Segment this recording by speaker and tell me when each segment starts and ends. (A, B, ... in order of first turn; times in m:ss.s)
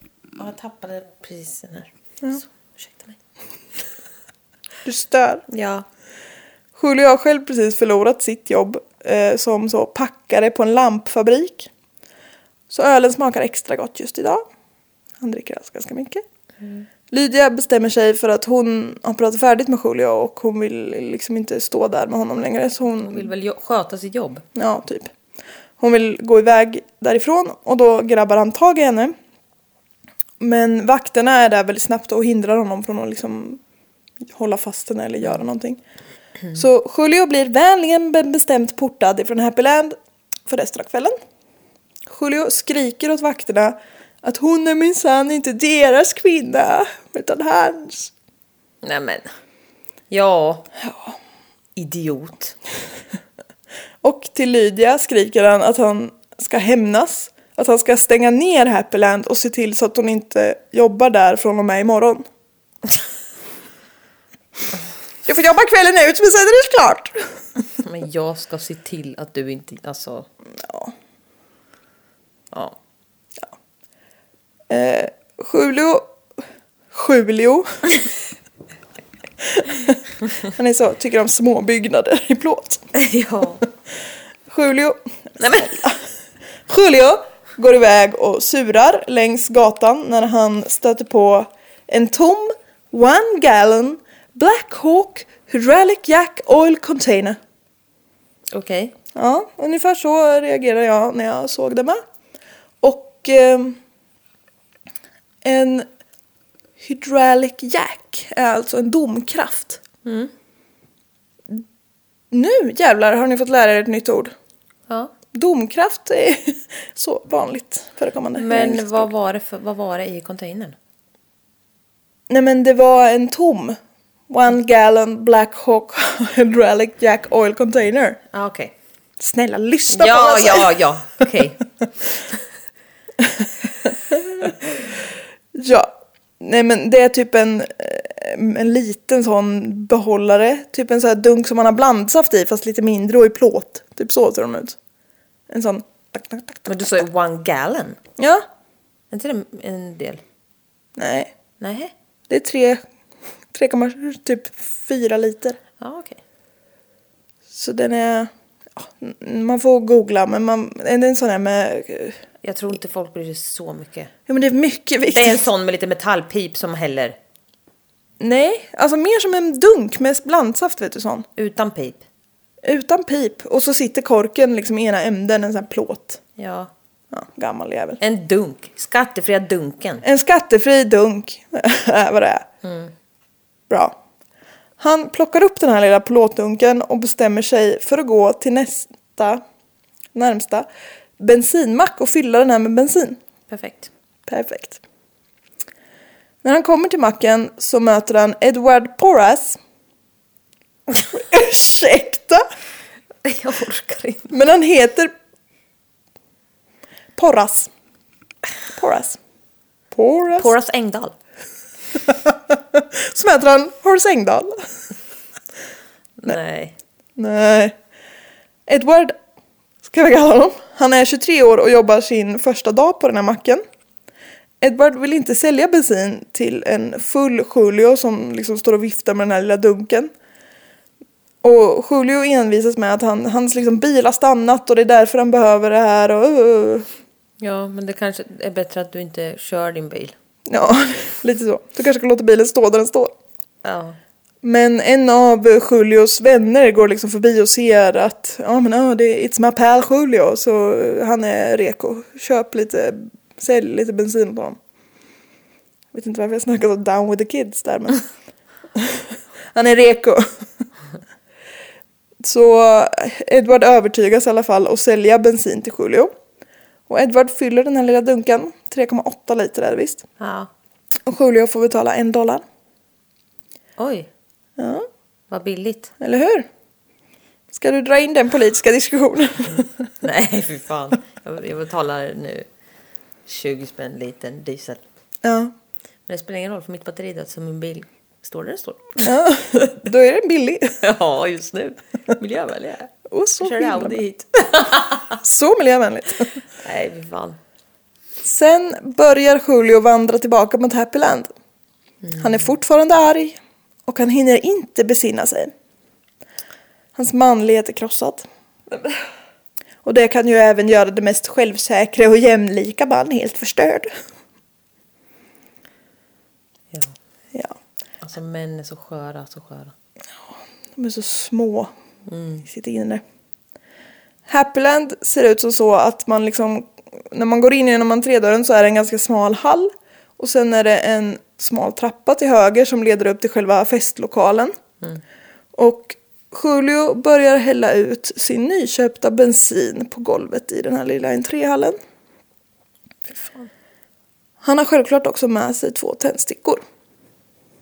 0:00.4-0:03.2 A
0:04.8-0:05.4 B
0:05.5-0:05.8 A
0:06.8-0:11.7 B
0:12.7-0:14.4 B
0:15.2-0:16.2 B
0:17.1-0:23.3 B
0:23.0-0:24.4 A
0:24.5-0:25.1 B
0:25.8-0:29.1 B
0:30.4-0:33.6 B
0:34.3-0:35.8 B
0:36.5-0:39.9 B
0:40.4-0:41.1 B
0:42.1-0:48.1 B
0:48.8-0:49.3 A
0:50.1-0:50.7 A
0:50.8-0:51.2 B
0:51.8-0:52.6 A
0:54.0-1:02.2 B
1:05.2-1:07.2 B
1:07.7-1:10.3 A
1:10.6-1:10.9 B
1:12.5-1:12.8 A
1:14.7-1:16.1 B
1:16.9-1:17.8 B
1:19.4-1:22.8 B
1:22.9-1:23.6 A
1:24.5-1:25.0 B
1:25.4-1:25.8 A
1:25.5-1:26.0 B
1:26.7-1:37.4 B
1:38.5-1:38.9 A
1:39.1-1:42.0 B
1:42.8-1:43.8 B
1:45.4-1:45.9 B
1:46.8-1:49.8 B
1:50.0-1:50.3 A
1:52.3-1:54.3 B
1:55.3-1:59.1 B
1:58.4-2:00.7 A
2:02.3-2:03.8 B
2:04.3-2:08.2 B
2:08.3-2:08.7 A
2:09.2-2:10.8 B
2:09.9-2:11.6 A
2:13.2-2:14.6 B
2:15.5-2:24.8 B
2:25.5-2:27.0 B
2:26.6-2:28.0 A
2:28.2-2:28.4 B
2:29.1-2:30.2 A
2:31.0-2:31.3 B
2:31.6-2:31.9 A
2:32.3-2:32.8 B
2:33.5-2:35.6 B
2:35.8-2:36.2 A
2:37.5-2:42.2 B
2:42.4-2:44.1 A
2:44.3-2:45.4 B
2:45.0-2:47.2 A
2:48.2-2:51.3 B
2:51.4-2:52.0 A
2:52.6-2:56.2 B
2:56.4-2:56.7 A
2:57.1-2:58.0 B
2:58.0-3:00.0 A
3:00.0-3:02.4 B
3:02.6-3:02.9 A
3:03.7-3:04.0 B
3:04.8-3:09.4 B
3:10.1-3:10.7 B
3:11.2-3:13.2 B
3:13.5-3:13.9 A
3:14.3-3:14.8 B
3:16.4-3:19.6 B
3:21.1-3:22.4 B
3:23.2-3:24.3 A
3:24.3-3:25.1 B
3:27.2-3:27.7 B
3:28.7-3:29.2 B
3:29.9-3:30.5 B
3:30.3-3:31.2 A
3:32.0-3:34.6 B
3:36.2-3:36.8 A
3:37.2-3:37.7 B
3:38.7-3:39.2 B
3:39.8-3:43.6 B
3:44.6-3:50.1 B
3:51.4-3:56.9 B
3:57.4-4:00.1 A
4:00.5-4:03.1 B
4:03.6-4:04.0 A
4:04.4-4:14.6 B
4:15.9-4:18.1 B
4:18.7-4:20.2 B
4:22.2-4:26.1 B
4:26.9-4:30.0 B
4:30.2-4:30.5 A
4:31.0-4:32.4 B
4:33.8-4:34.1 A
4:34.6-4:34.9 B
4:35.3-4:35.9 A
4:36.0-4:36.5 B
4:37.5-4:39.7 B
4:40.0-4:42.5 A
4:43.2-4:44.8 A
4:45.2-4:45.5 B
4:46.1-4:49.2 A
4:49.0-4:50.8 B
4:50.8-4:55.2 A
4:53.1-4:54.0 B
4:55.1-4:56.3 B
4:56.6-4:57.4 A
4:58.2-5:01.3 B
5:02.2-5:05.5 B
5:07.0-5:08.3 B
5:09.8-5:13.9 B
5:18.0-5:19.7 A
5:20.8-5:21.7 B
5:22.1-5:22.4 A
5:22.4-5:23.0 B
5:24.3-5:34.5 B
5:35.5-5:41.8 B
5:43.1-5:43.5 A
5:44.4-5:46.6 B